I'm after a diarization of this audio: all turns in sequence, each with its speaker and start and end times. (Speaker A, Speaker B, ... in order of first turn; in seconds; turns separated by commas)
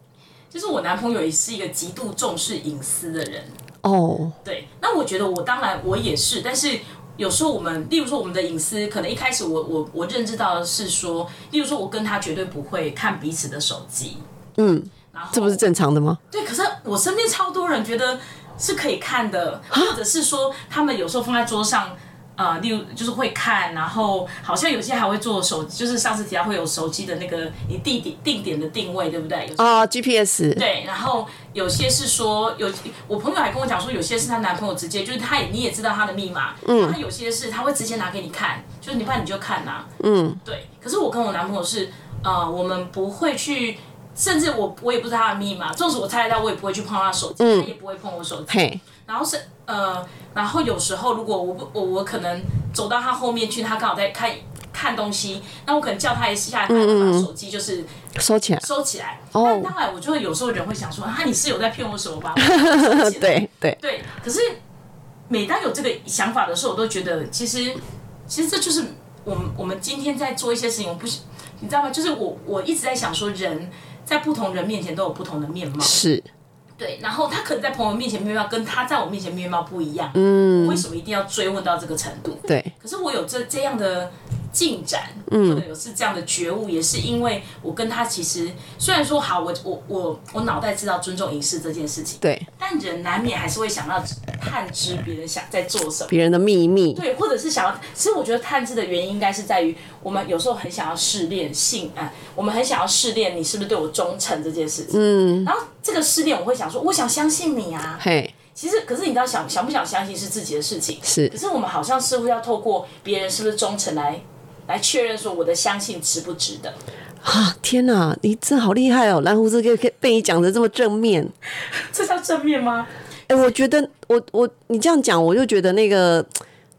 Speaker A: 0.5-3.5, Speaker B: 3.8-4.3, Speaker A: 4.4-14.2, Speaker B: 14.6-16.2, Speaker A: 15.1-15.6, Speaker A: 16.3-29.8, Speaker B: 29.6-30.6, Speaker A: 30.5-39.9, Speaker B: 36.6-37.0, Speaker B: 40.0-40.4, Speaker A: 40.4-57.9, Speaker B: 47.4-47.7, Speaker B: 48.5-48.8, Speaker B: 56.7-57.3, Speaker B: 58.1-58.6, Speaker A: 58.6-64.6, Speaker B: 59.3-59.7, Speaker B: 62.4-63.8, Speaker A: 65.3-76.0, Speaker B: 75.8-76.3, Speaker A: 76.8-96.2, Speaker B: 80.1-80.8, Speaker B: 82.5-82.7, Speaker B: 85.3-85.6, Speaker B: 92.2-92.5, Speaker B: 96.1-97.0, Speaker A: 96.9-108.0, Speaker B: 104.9-105.5, Speaker B: 108.0-108.3, Speaker A: 108.5-116.8, Speaker B: 111.0-111.3, Speaker B: 117.2-121.3, Speaker A: 121.8-122.9, Speaker B: 123.3-126.3